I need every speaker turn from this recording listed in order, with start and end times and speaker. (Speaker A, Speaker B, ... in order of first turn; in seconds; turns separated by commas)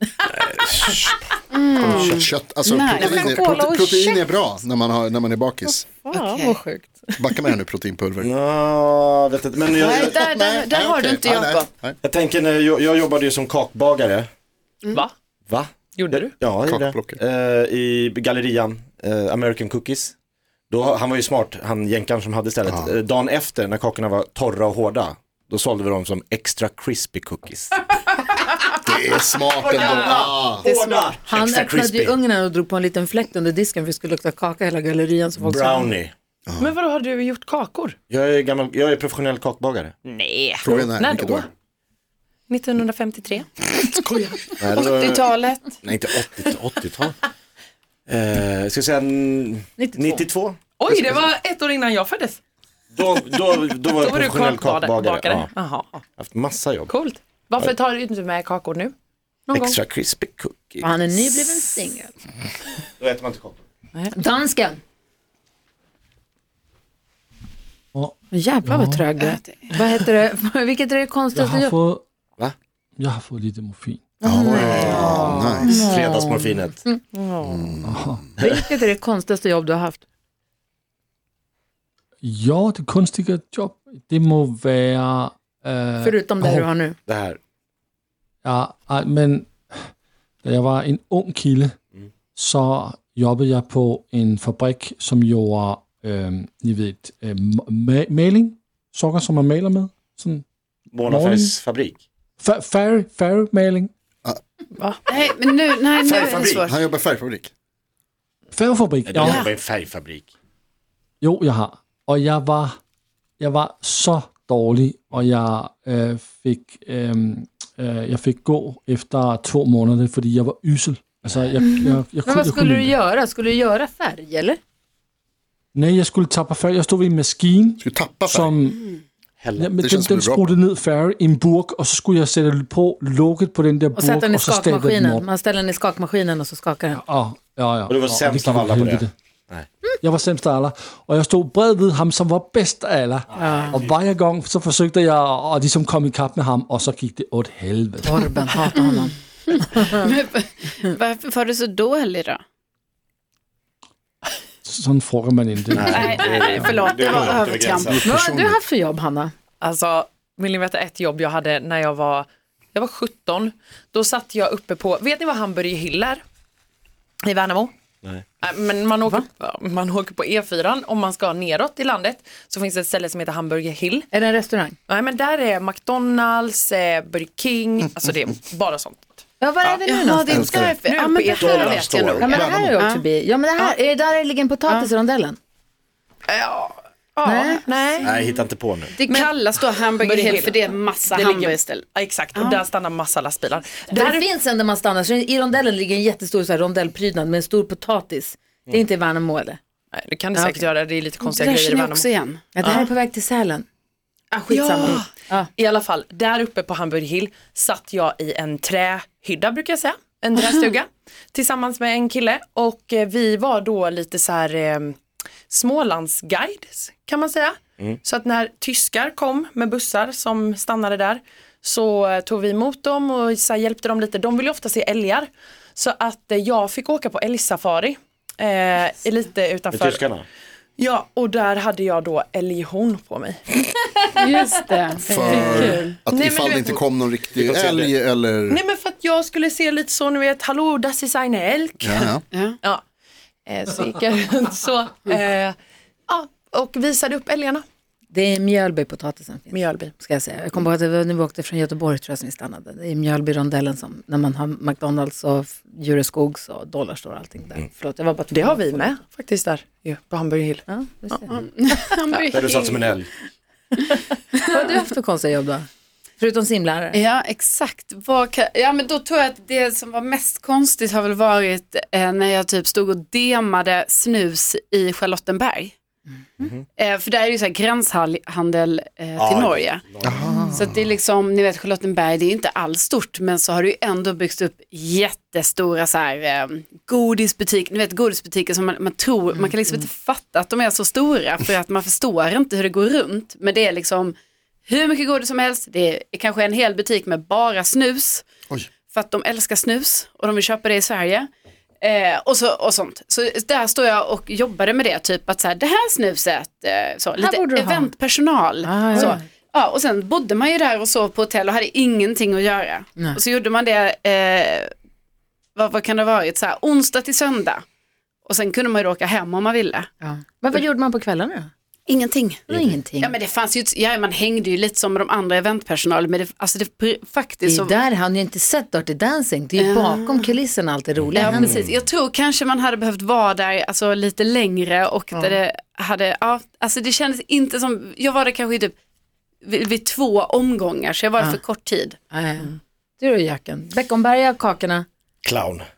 Speaker A: 0.3-2.3, Speaker B: 1.5-3.4, Speaker C: 2.1-5.8, Speaker D: 3.0-4.3, Speaker D: 6.0-7.5, Speaker B: 6.1-6.6, Speaker C: 7.2-8.3, Speaker A: 8.2-10.2, Speaker B: 9.7-11.7, Speaker C: 10.1-12.0, Speaker A: 12.0-14.3, Speaker A: 15.5-20.1, Speaker E: 15.9-16.3, Speaker C: 16.6-17.2, Speaker A: 20.7-27.8, Speaker C: 22.6-22.9, Speaker C: 28.8-30.6, Speaker A: 29.5-32.2, Speaker E: 29.8-30.1, Speaker B: 30.6-31.1, Speaker D: 31.2-35.9, Speaker A: 35.4-36.1, Speaker C: 36.5-36.7, Speaker E: 36.6-38.0, Speaker A: 38.1-39.9, Speaker E: 40.0-41.5, Speaker C: 40.6-41.5, Speaker E: 42.5-44.5, Speaker A: 44.6-45.3, Speaker B: 44.6-45.7, Speaker A: 45.8-47.1, Speaker A: 48.1-51.2, Speaker D: 49.8-50.2, Speaker E: 50.8-52.4, Speaker A: 52.9-55.5, Speaker E: 53.9-56.0, Speaker A: 56.2-56.9, Speaker E: 56.9-58.9, Speaker E: 59.5-59.8, Speaker A: 59.5-61.4, Speaker D: 60.8-62.1, Speaker A: 63.0-63.6, Speaker D: 64.1-64.8, Speaker F: 67.9-69.0, Speaker D: 68.3-71.8, Speaker B: 69.2-69.7, Speaker F: 71.3-72.0, Speaker F: 73.0-74.1, Speaker C: 74.2-75.7, Speaker D: 74.2-77.0, Speaker A: 74.3-76.8, Speaker E: 74.9-75.7, Speaker E: 77.1-77.8, Speaker C: 77.4-78.2, Speaker F: 77.8-78.3, Speaker D: 78.4-80.0, Speaker F: 82.2-86.7, Speaker D: 86.0-87.0, Speaker A: 87.1-87.4, Speaker F: 88.4-89.9, Speaker F: 90.4-91.7, Speaker F: 92.3-100.4, Speaker A: 100.9-102.0, Speaker F: 101.0-101.5, Speaker F: 102.4-103.9, Speaker B: 105.1-106.7, Speaker A: 106.0-106.7, Speaker C: 106.6-107.5, Speaker F: 108.5-109.5, Speaker A: 109.0-110.3, Speaker F: 111.2-112.8, Speaker F: 113.4-123.0, Speaker A: 121.2-121.6, Speaker D: 121.6-124.6, Speaker F: 125.7-128.9, Speaker C: 127.8-128.6, Speaker A: 129.4-129.7, Speaker F: 129.6-135.2, Speaker C: 129.8-130.6, Speaker D: 133.9-137.0, Speaker F: 136.9-139.1, Speaker A: 137.9-139.7, Speaker F: 140.0-148.3, Speaker D: 143.3-143.7, Speaker A: 143.4-143.7, Speaker D: 148.0-150.1, Speaker B: 149.5-152.4, Speaker F: 154.6-156.8, Speaker A: 155.7-158.1, Speaker B: 155.9-157.9, Speaker C: 157.9-158.6, Speaker D: 158.0-159.3, Speaker E: 159.6-166.2, Speaker E: 167.2-167.7, Speaker E: 168.4-174.1, Speaker D: 174.1-174.8, Speaker E: 174.9-179.8, Speaker D: 179.4-180.6, Speaker B: 179.8-183.0, Speaker C: 180.3-180.8, Speaker E: 180.8-181.9, Speaker A: 181.3-182.7, Speaker D: 182.2-185.4, Speaker E: 186.3-188.1, Speaker D: 187.2-187.6, Speaker A: 188.0-188.9, Speaker B: 188.9-192.6, Speaker E: 189.1-194.2, Speaker D: 193.9-199.6, Speaker E: 199.9-202.1, Speaker D: 200.3-200.6, Speaker B: 201.2-202.4, Speaker D: 202.5-203.7, Speaker D: 204.3-205.5, Speaker E: 204.5-215.0, Speaker E: 215.5-230.0, Speaker A: 229.7-230.2, Speaker E: 230.8-233.5, Speaker B: 234.1-235.9, Speaker C: 235.0-238.6, Speaker E: 235.1-236.8, Speaker A: 237.3-237.9, Speaker E: 238.5-242.8, Speaker C: 241.8-242.2, Speaker E: 243.5-245.5, Speaker E: 246.1-247.6, Speaker D: 248.1-258.9, Speaker E: 249.5-249.9, Speaker E: 258.3-260.6, Speaker D: 260.7-261.4, Speaker B: 261.3-263.0, Speaker A: 262.3-263.1, Speaker D: 263.8-265.7, Speaker D: 266.2-267.0, Speaker B: 266.9-275.7, Speaker B: 276.8-294.1, Speaker A: 279.2-280.3, Speaker C: 280.0-280.8, Speaker D: 280.2-280.6, Speaker B: 294.7-298.2, Speaker B: 298.9-301.3, Speaker B: 301.8-314.7, Speaker D: 307.2-307.9, Speaker D: 308.6-309.2, Speaker B: 315.6-317.6, Speaker B: 318.2-319.9, Speaker D: 320.0-321.5, Speaker B: 321.9-327.7, Speaker D: 322.5-323.1, Speaker A: 322.5-322.8, Speaker D: 327.4-331.6, Speaker B: 329.6-330.3, Speaker A: 330.9-331.8, Speaker B: 331.1-338.7, Speaker B: 339.4-342.0, Speaker D: 342.1-344.9, Speaker A: 345.2-345.6